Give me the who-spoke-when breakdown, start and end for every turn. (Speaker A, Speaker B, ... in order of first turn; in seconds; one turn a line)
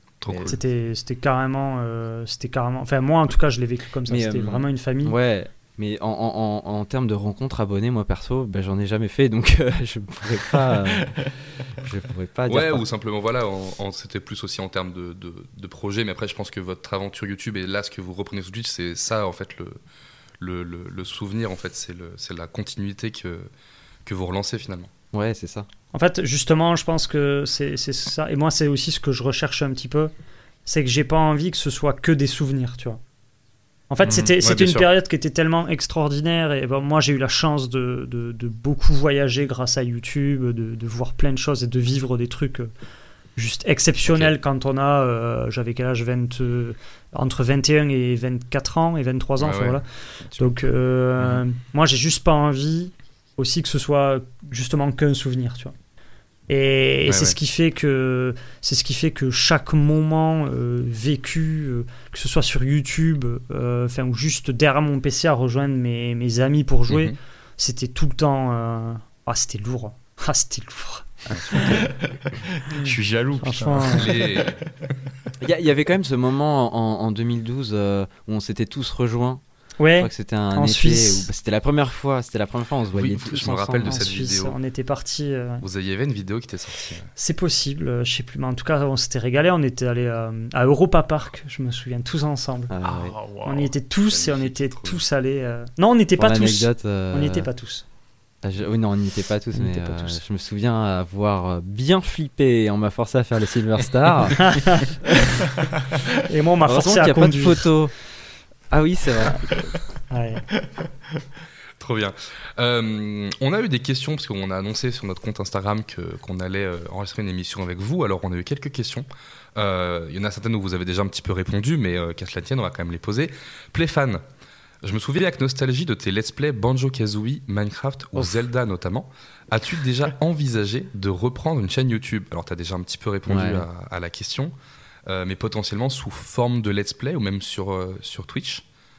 Speaker A: 0.2-0.6
Speaker B: 0.3-0.6
Speaker C: 0.5-5.2
Speaker D: 4.1-12.8
Speaker A: 12.5-19.8
Speaker A: 20.4-23.5
Speaker A: 24.1-24.9
Speaker D: 25.1-25.7
Speaker C: 25.9-30.1
Speaker C: 30.7-33.0
Speaker C: 33.9-42.7
Speaker B: 34.0-34.3
Speaker A: 34.4-34.9
Speaker C: 43.4-49.9
Speaker A: 44.1-44.3
Speaker A: 49.4-49.8
Speaker C: 50.4-55.7
Speaker C: 56.5-71.8
Speaker A: 57.1-57.4
Speaker A: 66.9-67.2
Speaker B: 71.6-71.9
Speaker D: 71.6-71.9
Speaker B: 72.7-74.5
Speaker C: 73.4-74.0
Speaker A: 73.9-74.6
Speaker D: 75.4-79.4
Speaker C: 79.8-81.3
Speaker D: 80.0-84.0
Speaker A: 83.0-84.6
Speaker C: 83.8-85.6
Speaker A: 85.6-87.1
Speaker C: 87.2-92.7
Speaker D: 92.7-93.2
Speaker B: 92.8-93.7
Speaker C: 93.5-97.8
Speaker A: 94.1-95.0
Speaker D: 96.2-97.5
Speaker D: 98.4-105.5
Speaker C: 99.5-100.2
Speaker C: 104.4-104.9
Speaker C: 106.3-107.7
Speaker D: 106.7-107.9
Speaker D: 108.7-109.4
Speaker C: 110.1-110.4
Speaker A: 111.8-124.2
Speaker A: 124.8-134.5
Speaker D: 133.3-133.7
Speaker A: 135.1-138.6